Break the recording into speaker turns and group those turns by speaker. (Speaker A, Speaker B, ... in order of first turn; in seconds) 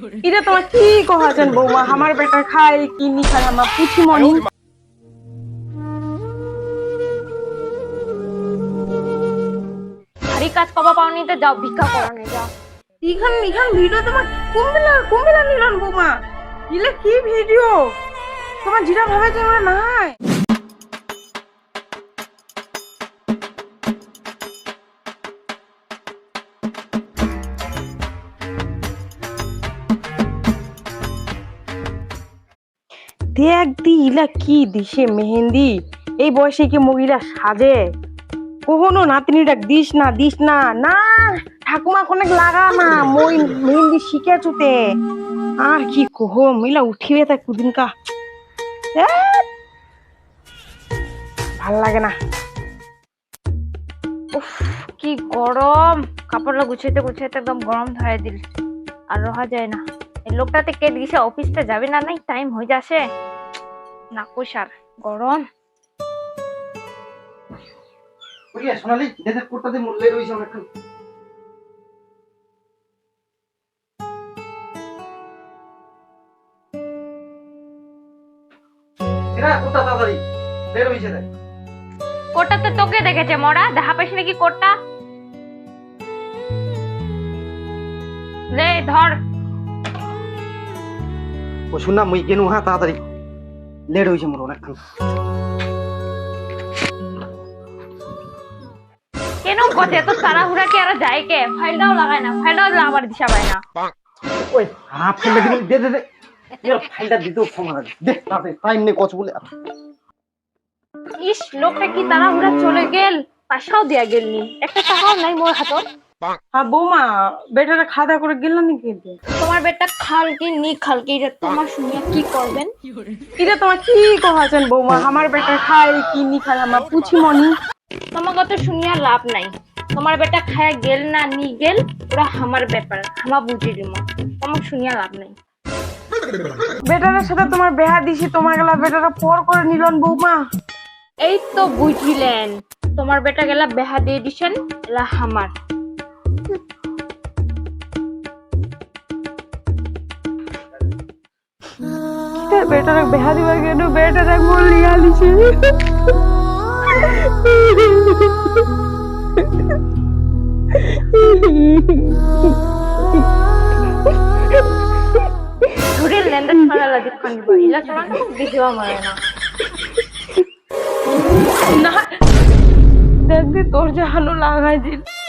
Speaker A: 0.2-4.5, 13.0-16.1, 16.7-17.8, 18.6-20.1, 33.3-37.8, 38.7-44.8, 45.6-47.9, 49.0-49.5, 51.6-52.1, 116.5-119.2, 123.4-127.5, 136.9-140.4, 152.5-155.7, 157.1-157.8, 160.9-162.1, 171.7-172.0, 173.3-175.0
Speaker B: 10.3-12.5, 54.3-58.4, 59.1-63.0, 64.1-65.4, 82.3-84.7, 88.5-89.2, 99.4-103.6, 111.2-115.8, 119.3-122.7, 128.1-135.3, 141.2-145.5, 165.9-169.2
Speaker C: 68.5-70.6, 79.3-80.2, 80.7-81.2, 91.7-93.0, 93.9-94.8, 104.3-106.0, 106.6-109.4